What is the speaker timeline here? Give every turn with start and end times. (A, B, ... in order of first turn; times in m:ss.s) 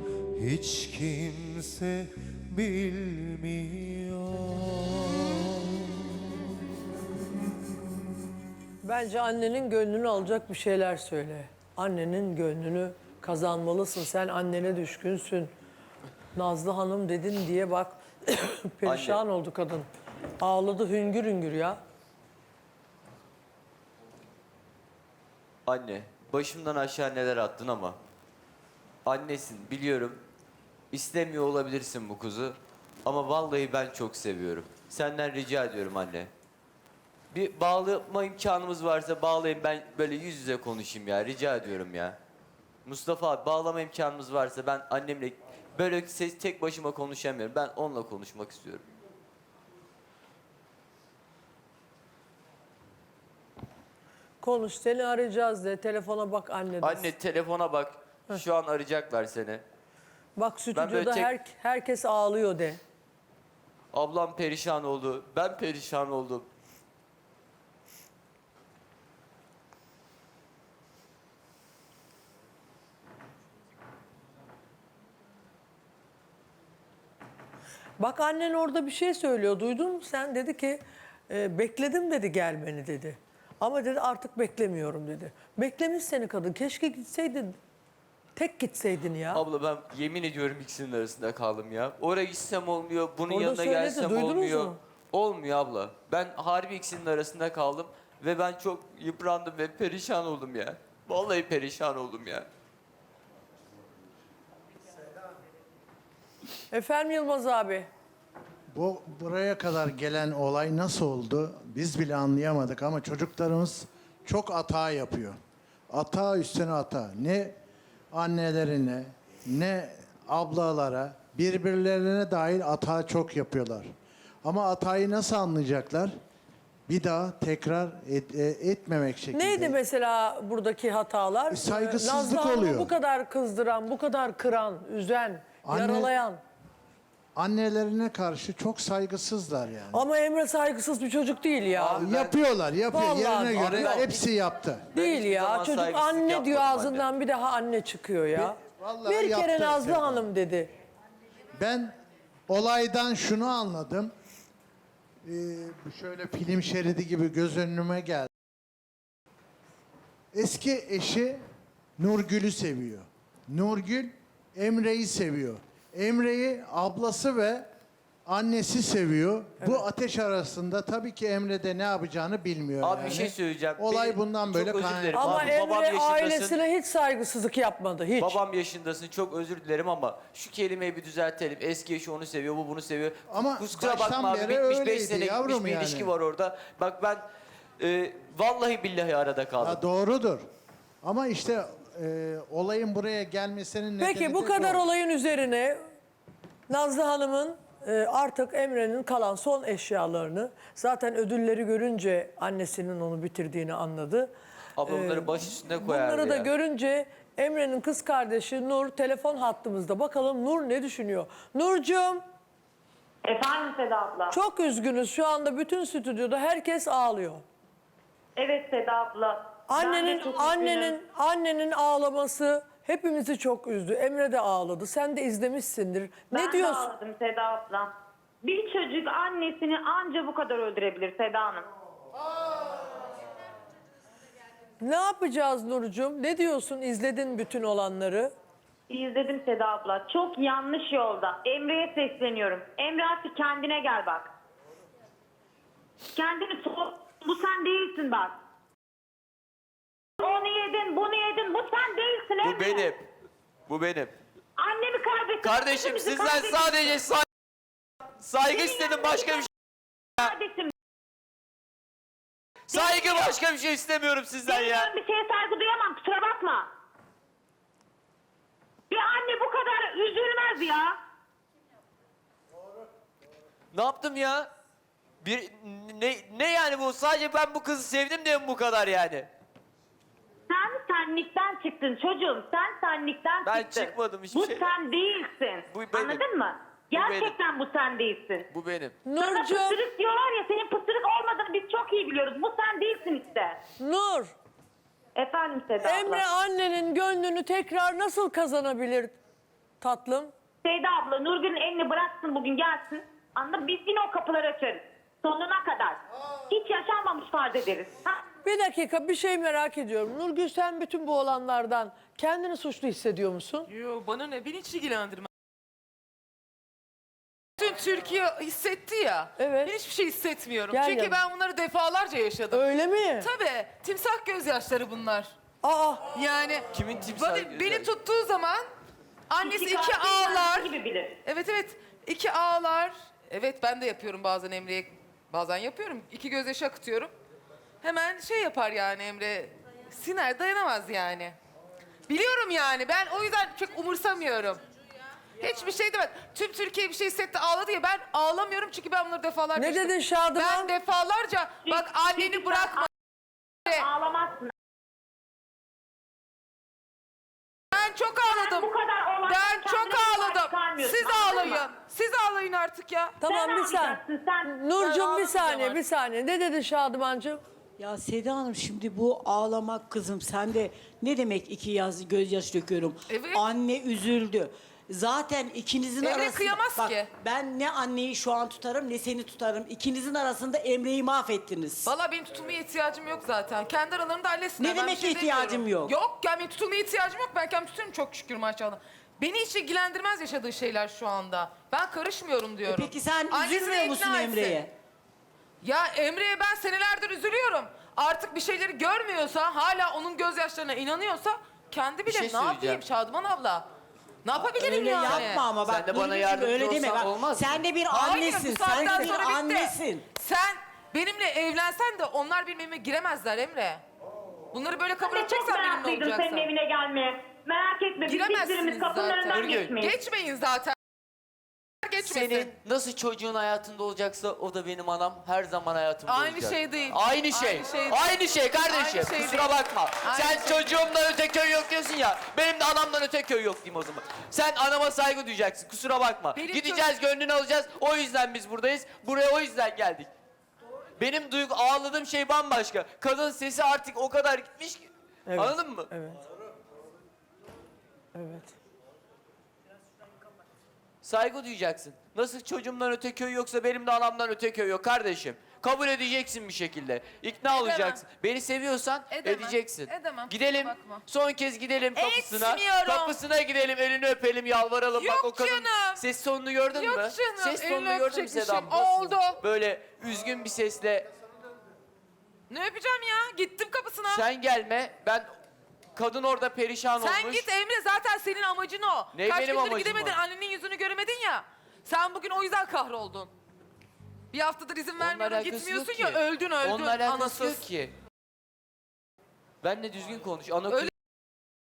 0:00.4-0:06.0 A
0:08.8-0:15.5 B
0:16.4-0:19.9 B
0:18.8-0:19.2 C
0:20.4-0:21.8 B
0:25.7-0:28.0 C
0:29.0-0:30.2 C
0:30.9-0:36.3 C
0:37.3-0:42.2 C
0:42.8-0:48.8 C
0:54.4-0:57.1 B
0:56.8-0:59.6 C
1:00.4-1:02.8 B
1:00.7-1:01.3 C
1:03.9-1:06.5 C
1:18.0-1:27.6 B
1:28.4-1:29.4 B
1:29.3-1:42.5 C
1:33.3-1:34.8 B
1:46.7-1:47.9 B
1:48.7-1:55.4 D
1:55.9-1:57.6 D
1:58.1-2:03.9 D
2:04.4-2:06.1 D
2:06.9-2:09.8 D
2:09.3-2:16.4 B
2:11.5-2:12.9 D
2:15.6-2:16.1 D
2:17.4-2:20.0 D
2:19.9-2:22.0 B
2:21.8-2:22.4 C
2:21.9-2:24.9 D
2:22.9-2:24.1 B
2:23.5-2:24.2 C
2:24.9-2:27.1 C
2:24.9-2:30.7 B
2:28.4-2:30.3 D
2:31.6-2:32.0 D
2:32.5-2:34.1 D
2:35.2-2:38.3 D
2:40.3-2:41.4 D
2:42.0-2:47.7 D
2:48.3-2:55.6 D
2:52.8-2:56.6 C
2:55.2-2:58.4 B
2:58.2-3:07.3 C
3:03.3-3:06.1 D
3:07.8-3:09.8 C
3:09.6-3:10.5 D
3:11.0-3:14.9 D
3:14.0-3:15.8 B
3:16.7-3:24.3 B
3:24.8-3:26.5 C
3:24.9-3:32.2 B
3:33.2-3:34.4 E
3:34.3-3:37.4 B
3:38.4-3:41.0 E
3:39.7-3:46.9 B
3:46.3-3:47.9 E
3:48.4-3:51.7 E
3:54.8-3:58.3 B
3:58.9-4:04.3 E
4:06.2-4:08.4 E
4:10.2-4:12.9 E
4:12.4-4:13.1 C
4:13.7-4:14.1 C
4:14.6-4:17.0 E
4:15.4-4:17.3 C
4:18.2-4:19.5 C
4:18.5-4:19.5 E
4:20.2-4:20.7 E
4:22.7-4:24.9 C
4:22.7-4:23.3 E
4:24.5-4:26.7 E
4:28.9-4:31.0 E
4:33.7-4:34.5 C
4:35.2-4:39.3 C
4:40.5-4:48.5 E
4:43.4-4:44.7 C
4:45.7-4:46.2 C
4:46.9-4:47.4 C
4:48.5-4:49.0 C
4:49.0-4:49.8 B
4:49.2-4:53.6 E
4:53.8-4:54.3 B
4:55.2-4:56.2 E
4:55.8-4:59.2 B
4:59.8-5:00.3 B
5:00.6-5:08.2 E
5:08.4-5:13.7 B
5:13.7-5:15.3 F
5:17.6-5:22.7 F
5:19.4-5:19.7 B
5:20.7-5:21.2 B
5:22.5-5:23.3 B
5:23.2-5:25.4 F
5:25.6-5:26.0 B
5:26.1-5:28.7 F
5:26.7-5:27.9 C
5:29.3-5:30.7 F
5:29.4-5:31.2 E
5:31.2-5:37.1 F
5:37.8-5:41.4 F
5:42.1-5:44.6 F
5:45.4-5:52.9 F
5:49.6-5:50.7 B
5:51.7-5:52.9 E
5:53.7-5:54.5 E
5:57.7-5:58.7 F
5:58.2-6:01.7 E
5:59.3-6:03.2 F
6:03.2-6:07.4 B
6:03.3-6:04.6 E
6:04.8-6:05.8 F
6:07.8-6:21.9 G
6:13.1-6:13.4 F
6:16.0-6:17.1 F
6:21.8-6:34.6 F
6:24.6-6:25.9 G
6:32.7-6:34.7 G
6:35.6-6:43.7 F
6:42.1-6:42.8 C
6:44.2-6:45.4 F
6:44.4-6:50.0 G
6:45.0-6:47.6 C
6:47.9-6:53.8 F
6:54.5-6:56.5 F
6:55.0-7:00.0 E
6:58.0-7:00.8 F
6:59.3-6:59.8 C
7:01.8-7:02.5 F
7:02.0-7:20.1 C
7:06.1-7:10.8 F
7:16.4-7:16.9 F
7:21.0-7:25.9 C
7:25.3-7:26.2 B
7:28.2-7:28.5 B
7:31.0-7:51.1 C
7:37.5-7:38.0 F
7:39.1-7:41.0 F
7:41.9-7:43.2 F
7:45.0-7:46.0 F
7:46.7-7:49.4 F
7:52.5-7:54.2 F
7:54.1-7:55.3 C
7:56.0-7:57.5 C
7:57.0-8:03.3 F
7:59.1-8:00.2 C
8:04.3-8:07.6 F
8:05.0-8:07.9 C
8:09.6-8:10.9 C